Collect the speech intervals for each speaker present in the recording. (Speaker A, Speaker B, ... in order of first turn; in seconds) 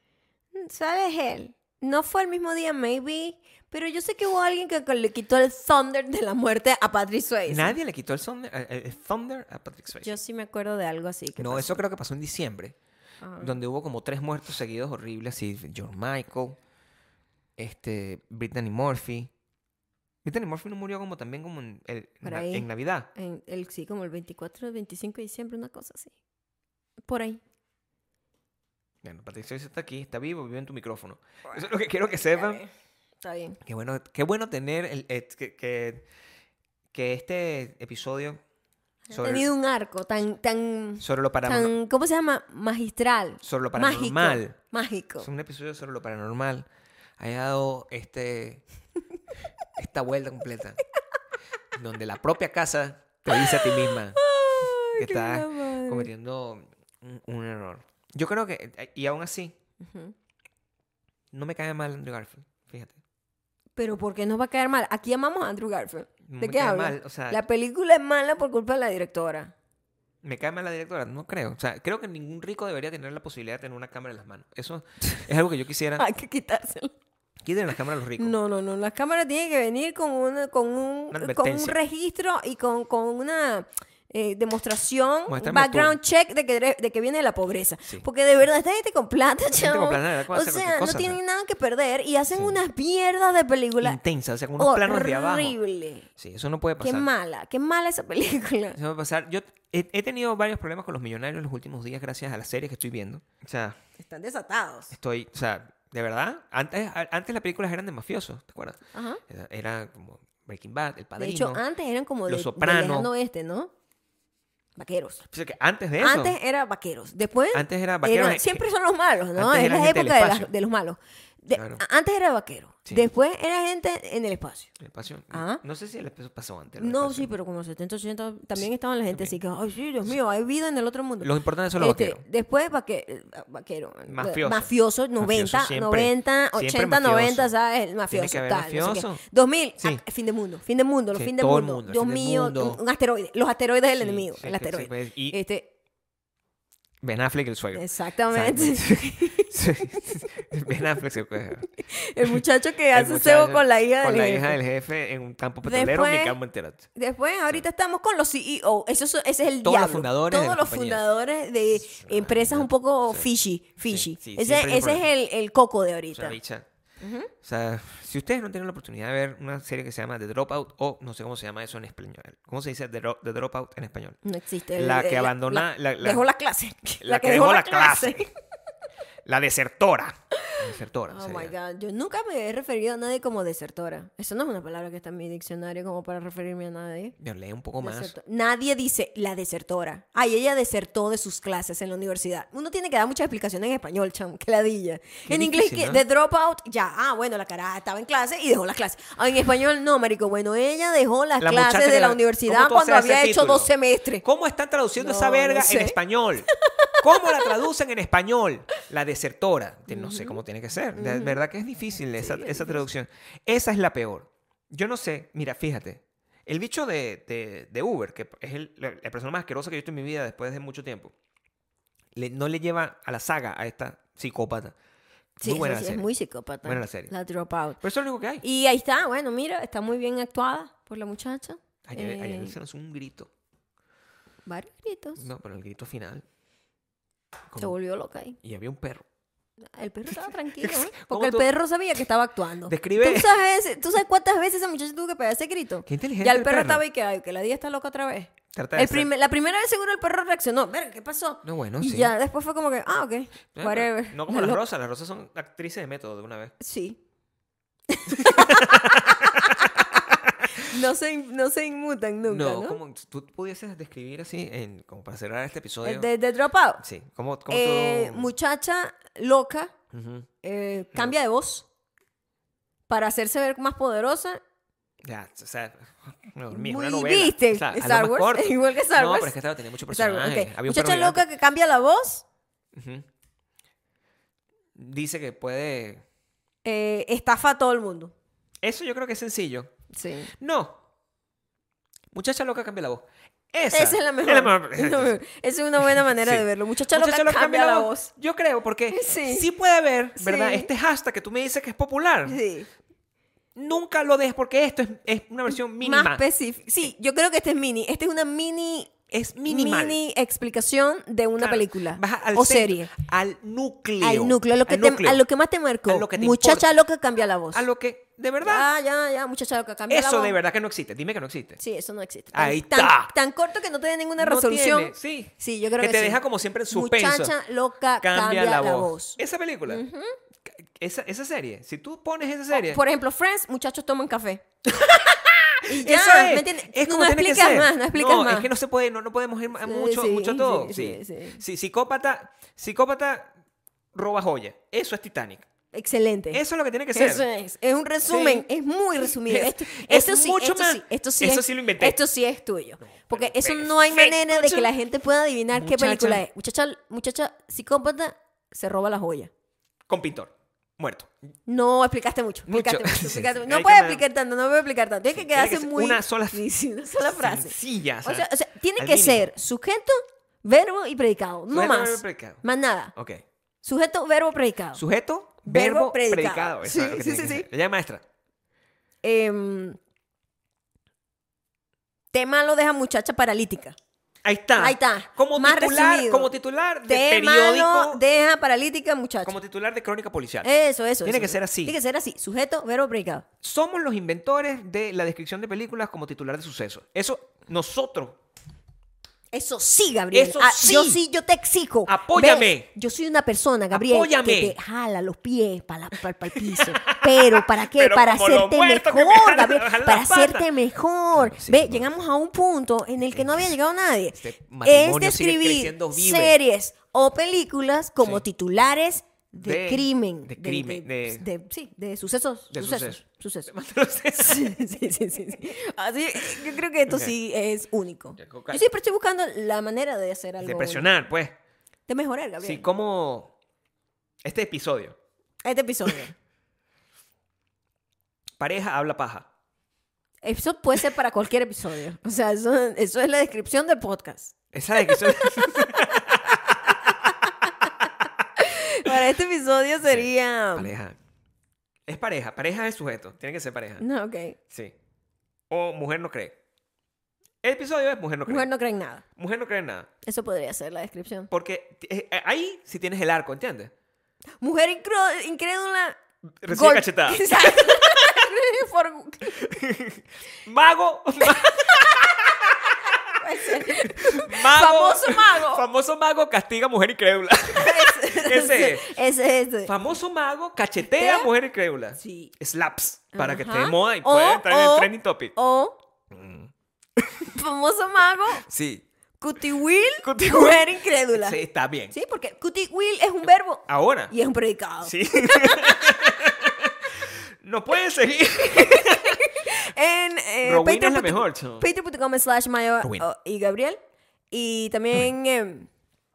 Speaker A: 0.5-7.8, 10.0-11.8, 13.2-13.6, 22.2-26.1, 27.1-27.4, 32.4-32.7, 33.2-33.6, 39.1-45.3, 53.3-56.1, 59.8-60.1, 63.8-69.5, 76.0-76.9, 78.2-94.0, 94.6-96.1, 96.8-98.8, 104.0-105.0, 108.9-109.2, 111.2-113.7, 114.8-115.2, 116.0-124.7, 125.3-125.6, 126.8-145.7, 147.7-150.2, 151.7-154.6, 155.7-156.4, 156.9-166.4, 167.0-167.3, 174.2-178.3, 180.4-187.2, 187.8-204.2, 205.0-206.0, 206.6-207.6, 209.9-210.4, 211.0-211.4, 212.2-212.9, 225.4-227.8, 228.4-232.6, 234.5-235.2, 237.6-238.4, 239.7-254.6, 256.6-257.0, 257.9-262.8, 265.8-266.8, 267.5-269.7, 270.4-271.7, 272.9-274.4, 276.5-279.4, 279.9-282.2, 286.6-288.1, 289.9-290.3, 293.7-298.1, 298.9-299.5, 300.2-300.7, 302.3-302.7, 305.8-312.9, 314.0-317.7, 318.4-320.4, 321.6-330.2, 332.5-334.4, 335.7-338.5, 339.6-341.4, 345.7-346.4, 346.9-359.3, 361.5-372.9, 373.6-374.8, 375.5-377.5, 379.0-379.8, 382.1-383.8, 384.6-386.3, 386.9-389.4, 390.4-393.2, 399.3-423.5, 424.1-430.9, 431.9-432.7, 435.4-436.1, 440.2-446.0, 446.7-447.9, 448.4-450.7, 453.8-454.4, 458.3-459.0, 460.0-461.3, 464.4-469.5, 471.3-472.2, 473.1-475.6, 477.5-479.7, 480.8-481.3, 482.0-482.3, 483.1-485.8, 487.3-488.5, 489.2-491.4, 491.9-496.2, 498.5-503.8, 504.3-505.7
Speaker B: 7.5-10.2, 11.4-12.8, 13.4-16.6, 17.6-19.3, 20.2-23.1, 29.0-32.6, 33.6-36.0, 36.9-38.4, 39.1-39.5, 41.0-41.7, 43.4-44.6, 45.2-46.7, 47.2-48.6, 49.8-50.8, 51.7-59.5, 61.3-63.0, 66.2-67.4, 70.2-76.0, 77.4-78.4, 81.1-81.8, 85.3-86.0, 89.5-91.2, 92.3-92.6, 93.8-95.6, 96.2-97.1, 98.8-103.8, 104.9-111.6, 112.3-113.1, 115.3-116.4, 117.5-118.6, 119.3-120.5, 121.5-121.8, 124.8-127.3, 129.1-129.4, 131.2-132.2, 134.1-137.5, 138.1-139.2, 141.1-142.8, 144.0-145.4, 147.0-151.7, 152.2-156.9, 159.6-161.0, 161.8-163.3, 163.9-165.1, 166.1-166.7, 167.4-174.2, 174.8-176.3, 177.0-178.3, 179.2-181.5, 187.2-188.1, 195.3-196.0, 201.4-221.1, 222.2-224.8, 225.4-226.1, 226.6-227.1, 227.8-228.4, 231.8-233.3, 235.2-236.2, 238.4-239.1, 240.1-241.5, 242.7-243.4, 245.9-246.8, 248.5-249.1, 251.4-252.1, 253.6-256.6, 258.1-260.7, 262.3-266.1, 266.8-268.3, 269.9-270.3, 275.0-281.2, 282.7-283.1, 284.8-286.0, 288.6-289.7, 290.4-290.8, 292.1-295.2, 295.9-302.4, 303.6-306.2, 309.1-310.0, 311.4-315.2, 315.9-316.7, 317.5-318.7, 319.9-321.6, 322.3-323.1, 324.2-327.4, 328.0-329.8, 330.5-332.8, 334.7-343.3, 343.9-345.5, 346.3-347.3, 348.1-352.0, 352.8-354.7, 355.5-356.2, 359.9-361.1, 362.5-364.0, 365.1-366.4, 367.1-369.3, 371.5-372.4, 372.9-373.2, 374.8-378.0, 384.2-388.0, 389.2-390.5, 391.0-391.8, 393.4-398.2, 400.1-401.0, 401.9-402.7, 403.7-404.6, 406.3-410.5, 411.1-411.9, 413.2-413.5, 414.1-416.4, 418.0-418.2, 419.4-421.2, 422.5-424.6, 428.2-428.6, 430.4-431.4, 432.4-433.3, 434.2-435.0, 438.4-439.3, 444.5-447.1, 449.8-451.0, 451.9-453.9, 455.5-456.4, 457.4-458.5, 459.2-459.9, 461.3-463.7, 466.4-468.3, 469.4-479.0, 479.7-485.3, 486.1-487.4, 488.3-488.9, 490.0-491.9, 493.7-494.1, 494.8-499.6, 500.4-501.7